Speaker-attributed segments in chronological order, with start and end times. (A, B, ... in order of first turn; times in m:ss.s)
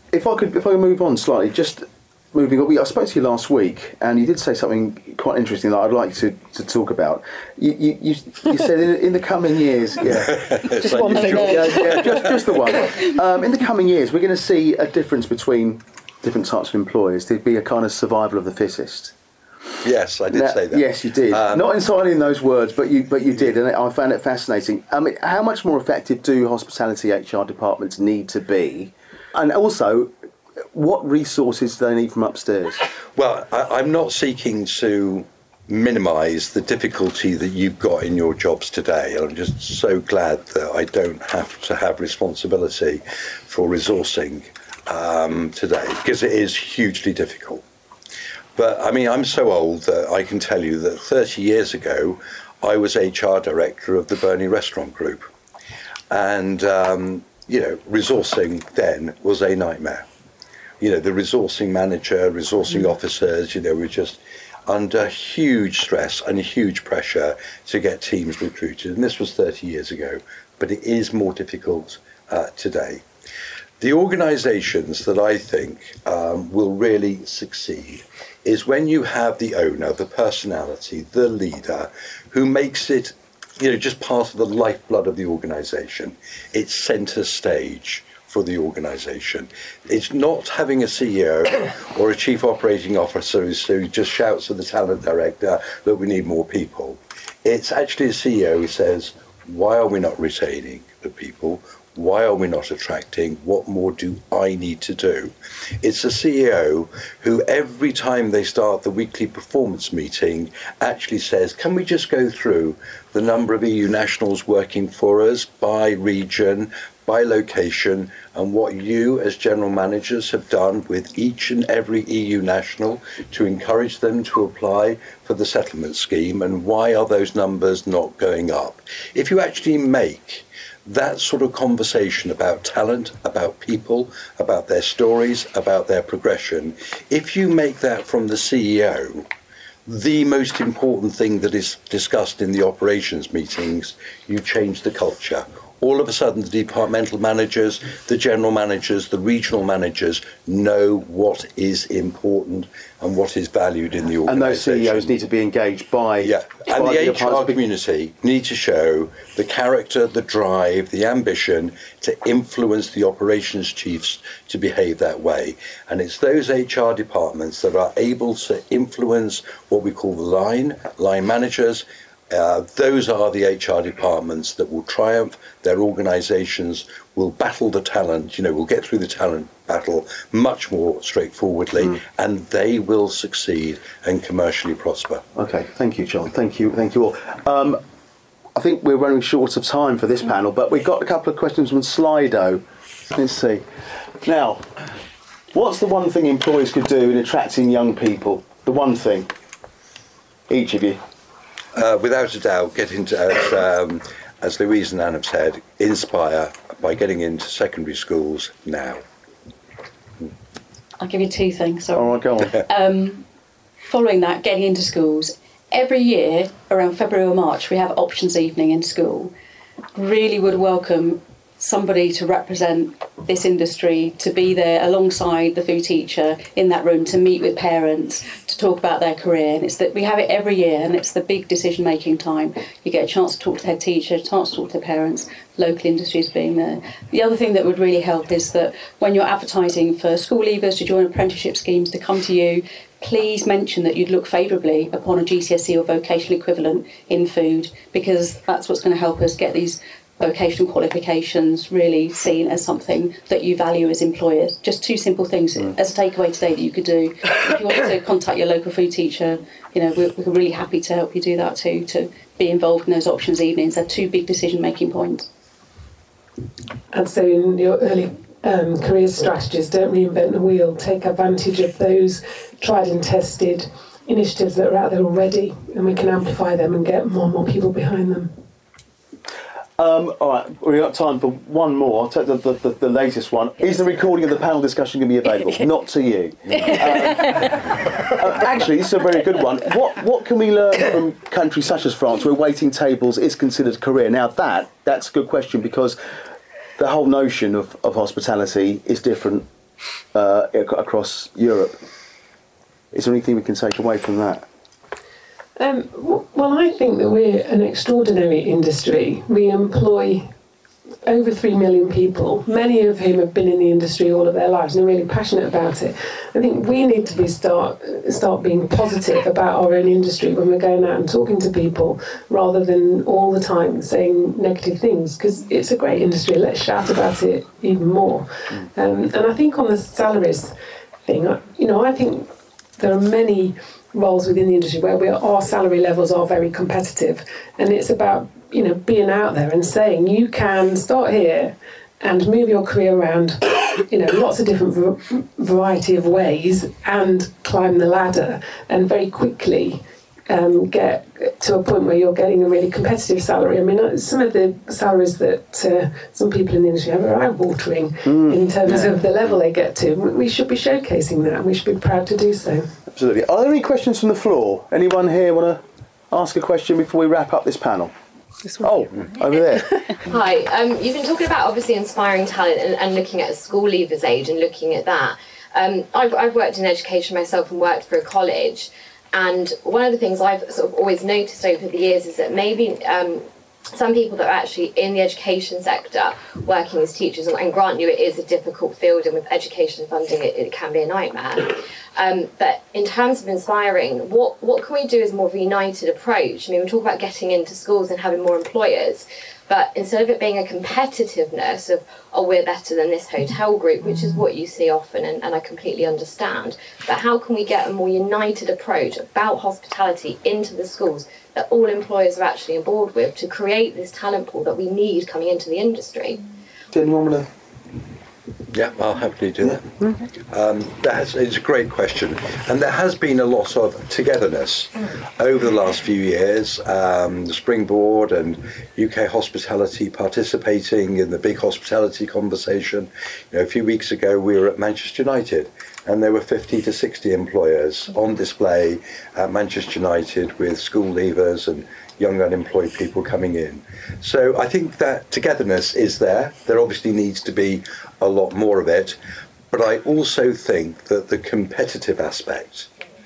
0:00.1-0:19.1 A
0:10.2-0:12.2 B
0:10.8-0:11.1 C
0:19.8-0:21.7 B
0:20.3-0:30.1 A
0:30.7-0:32.8 A
0:33.1-0:47.6 B
0:48.6-0:55.3 B
0:56.1-1:00.1 B
1:00.8-1:13.0 B
1:13.8-2:19.3 B
2:19.9-2:35.1 B
2:34.3-2:37.6 A
2:36.2-3:05.2 B
3:05.4-3:07.8 A
3:08.6-3:12.6 A
3:13.1-3:13.6 A
3:14.2-3:14.7 A
3:15.5-3:19.3 A
3:20.5-3:21.0 A
3:21.8-3:29.0 B
3:31.0-3:33.3 C
3:31.9-3:32.6 A
3:33.9-3:39.3 C
3:40.0-4:25.3 C
4:26.9-4:38.3 D
4:39.8-4:56.0 A
4:56.8-4:59.5 A
5:00.1-5:01.8 A
5:02.9-5:04.5 A
5:05.6-5:10.3 D
5:11.0-5:30.5 D
5:31.1-6:02.7 D
5:58.0-5:59.0 A
6:02.9-6:07.9 A
6:08.6-6:10.0 A
6:10.1-6:56.2 E
6:56.7-6:57.3 A
6:58.5-7:29.0 B
6:59.5-6:59.9 A
7:29.5-7:32.7 B